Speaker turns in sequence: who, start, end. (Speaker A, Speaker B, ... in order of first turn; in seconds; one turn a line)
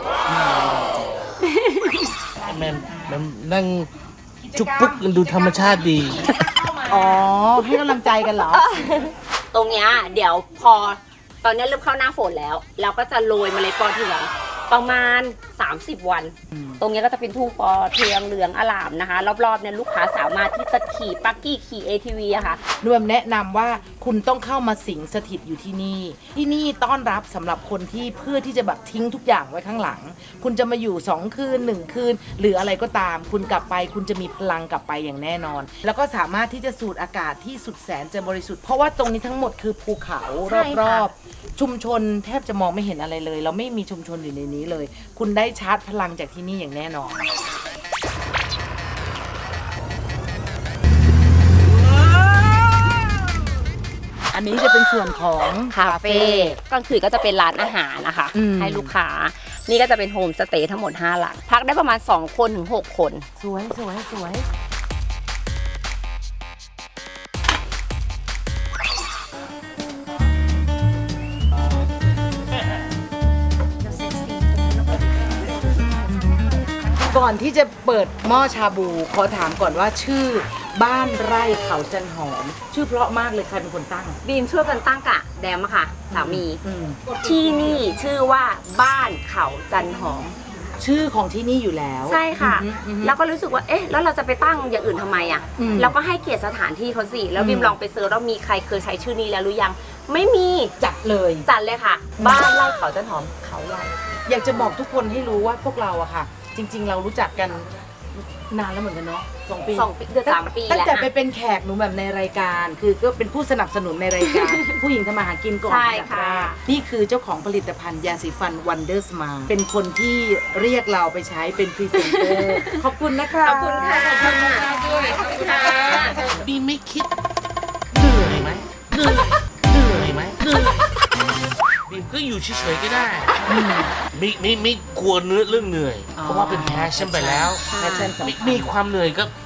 Speaker A: 0.3-1.1
Speaker B: 1.4-2.1
Speaker C: 2.4-3.9
Speaker A: 4.4-8.7
Speaker C: 4.5-6.3
Speaker B: 6.2-7.2
Speaker B: 8.3-22.6
Speaker A: 16.5-16.8
Speaker A: 22.8-47.2
Speaker B: 40.5-41.1
Speaker A: 54.3-56.6
Speaker B: 55.7-63.2
Speaker A: 58.3-58.9
Speaker A: 63.4-64.5
Speaker A: 77.1-84.2
Speaker B: 84.2-86.6
Speaker A: 86.1-87.8
Speaker B: 87.2-90.3
Speaker A: 90.8-93.2
Speaker B: 92.0-100.7
Speaker A: 95.6-95.9
Speaker A: 97.3-97.8
Speaker A: 100.8-101.5
Speaker B: 101.5-103.9
Speaker A: 102.2-102.5
Speaker A: 104.3-124.9
Speaker B: 109.7-111.1
Speaker B: 114.2-114.7
Speaker B: 115.6-116.6
Speaker B: 122.0-122.8
Speaker B: 123.4-126.2
Speaker C: 123.9-127.1
Speaker A: 125.6-126.2
Speaker C: 127.9-130.9
Speaker C: 131.9-133.3
Speaker A: 133.5-133.9
Speaker C: 134.1-139.3
Speaker A: 136.2-138.7
Speaker B: 137.7-138.1